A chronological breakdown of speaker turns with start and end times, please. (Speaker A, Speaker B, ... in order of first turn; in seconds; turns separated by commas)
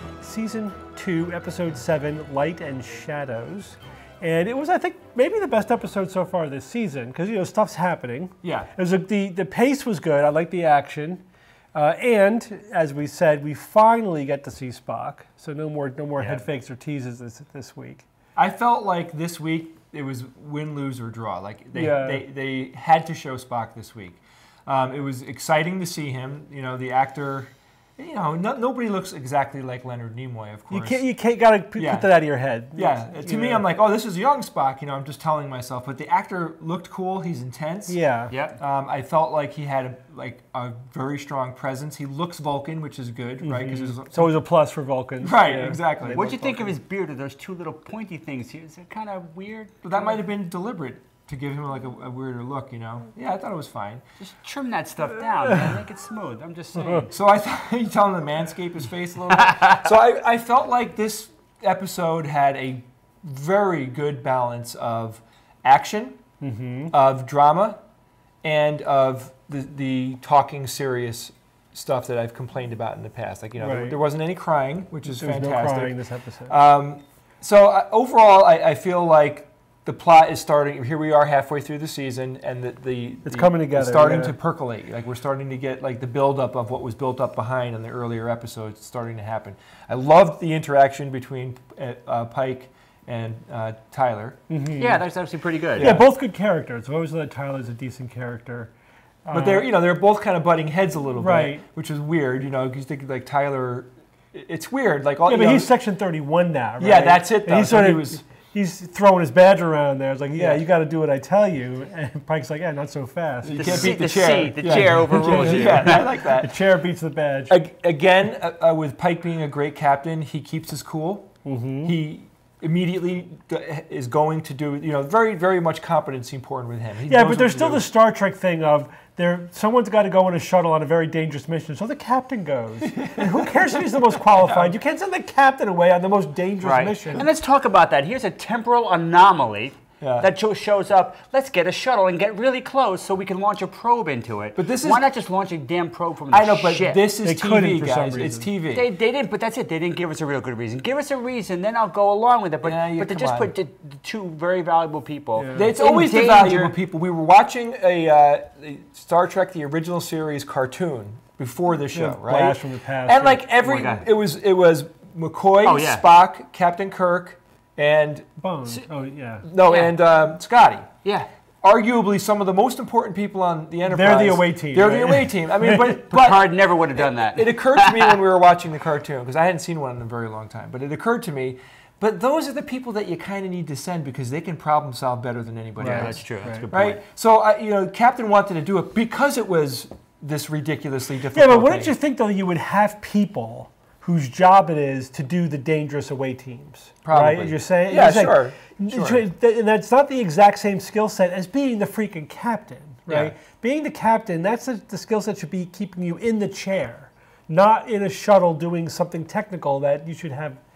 Speaker A: 0.2-18.1, Speaker B: 8.4-8.7, Speaker B: 18.4-31.1, Speaker A: 21.7-22.2, Speaker A: 30.7-33.7, Speaker B: 31.8-32.1, Speaker B: 32.7-38.0, Speaker A: 37.9-38.3, Speaker C: 38.3-38.6, Speaker B: 38.5-44.3, Speaker A: 43.4-46.8, Speaker B: 45.2-46.4, Speaker C: 46.1-50.1, Speaker B: 49.8-54.0, Speaker C: 54.2-57.1, Speaker A: 56.7-57.1, Speaker B: 57.1-66.2, Speaker C: 59.4-59.9, Speaker A: 66.4-66.9, Speaker B: 66.9-67.8, Speaker B: 68.4-94.4, Speaker A: 73.6-74.0, Speaker A: 75.0-76.6, Speaker A: 83.2-84.3, Speaker A: 94.5-95.0, Speaker C: 94.8-95.9, Speaker B: 95.8-96.1, Speaker A: 95.8-98.7, Speaker A: 99.2-99.8, Speaker B: 99.3-105.7, Speaker A: 101.2-101.7, Speaker A: 105.2-113.9, Speaker B: 106.8-108.2, Speaker B: 110.3-110.6, Speaker B: 113.4-116.5, Speaker C: 113.5-116.1, Speaker A: 114.7-117.6, Speaker B: 117.5-121.3, Speaker A: 121.4-122.0, Speaker B: 121.8-127.9, Speaker A: 127.0-137.2, Speaker B: 132.8-134.8, Speaker C: 136.6-147.1, Speaker B: 140.0-140.3, Speaker B: 144.6-145.0, Speaker B: 146.3-148.9, Speaker A: 147.2-148.5, Speaker C: 148.7-156.7, Speaker B: 152.6-153.5, Speaker A: 155.3-155.7, Speaker B: 155.5-168.3, Speaker A: 161.9-163.5, Speaker C: 163.6-164.1, Speaker C: 165.6-166.0, Speaker A: 168.4-169.5, Speaker B: 169.4-170.9, Speaker C: 169.6-169.9, Speaker B: 171.6-191.9, Speaker A: 173.8-176.0, Speaker C: 176.1-178.2, Speaker A: 185.8-186.7, Speaker C: 185.8-187.0, Speaker A: 191.2-210.6, Speaker B: 197.0-199.2, Speaker B: 203.1-203.3